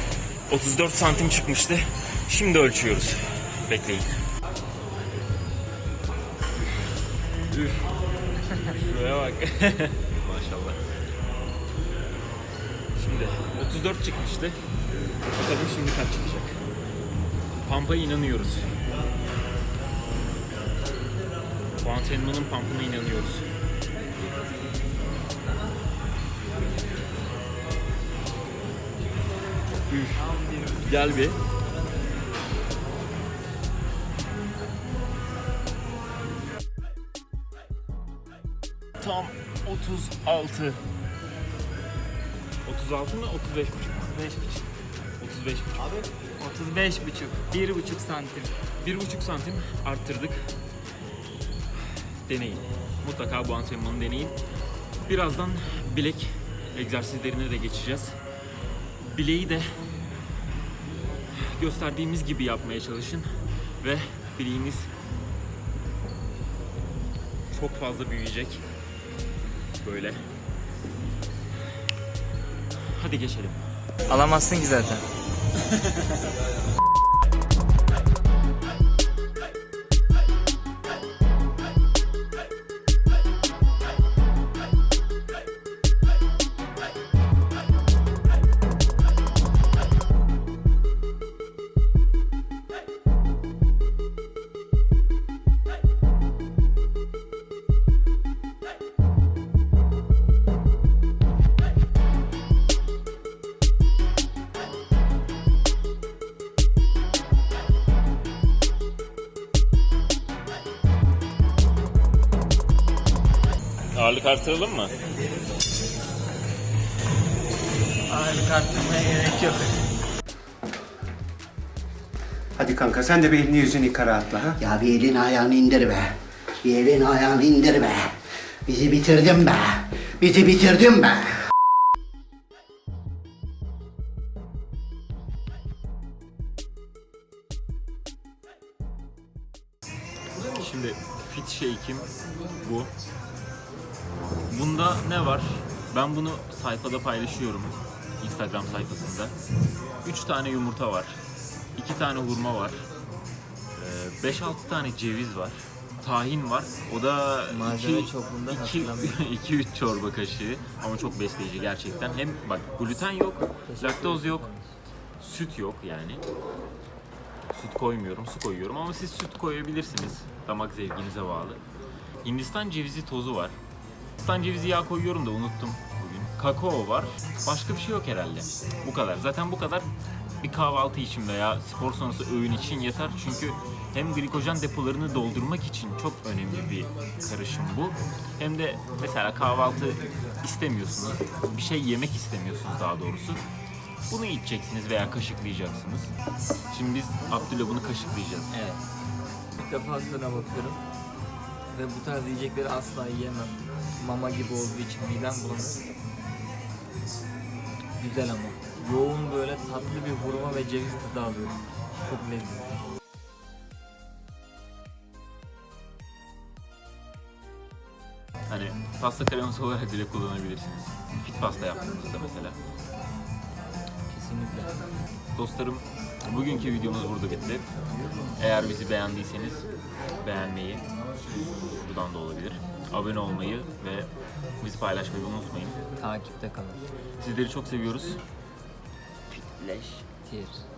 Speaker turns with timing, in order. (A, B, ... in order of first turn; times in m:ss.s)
0:00.5-0:04.1 A
0:07.5-0:07.9 A
0:08.5-0:10.8 A
0:13.0-0:14.6 A
0:15.3-0:16.6 A
0:17.6-0:18.7 A
0:21.8-0:23.5 A
0:29.9-0:31.4 A
0:39.0-0:40.8 A
0:42.6-0:44.2 A
0:44.1-0:44.7 B
0:45.2-0:46.0 A
0:46.4-0:48.5 B
0:48.8-0:50.5 A
0:51.9-0:54.4 A
0:55.0-0:58.2 A
0:59.0-0:59.7 A
1:01.3-1:04.9 A
1:07.5-1:08.6 A
1:09.8-1:10.2 A
1:12.9-1:13.6 A
1:14.1-1:15.0 B
1:15.6-1:16.3 A
1:53.9-1:54.9 A
1:58.1-1:59.8 B
2:02.6-2:04.6 C
2:04.6-2:11.4 D
2:20.5-2:22.9 A
2:24.5-2:29.3 A
2:30.0-2:31.2 A
2:31.8-2:32.8 A
2:33.8-2:44.4 A
2:37.5-2:39.2 B
2:43.7-2:44.7 B
2:45.2-2:46.2 A
2:47.5-2:51.6 A
2:52.2-2:53.6 A
2:54.2-2:59.9 A
3:00.4-3:13.4 A
3:14.1-3:16.1 A
3:16.7-3:18.5 A
3:18.5-3:18.8 B
3:19.5-3:20.8 B
3:21.7-3:25.9 B
3:28.0-3:32.7 B
3:38.5-3:42.6 A
3:44.1-3:44.8 B
3:45.4-3:47.7 A
3:48.4-3:49.6 A
3:50.2-3:50.8 A
3:51.8-3:54.1 A
3:54.6-3:55.8 A
3:56.0-3:56.8 B
3:57.2-3:58.2 A
3:59.3-4:00.0 A
4:00.2-4:00.6 B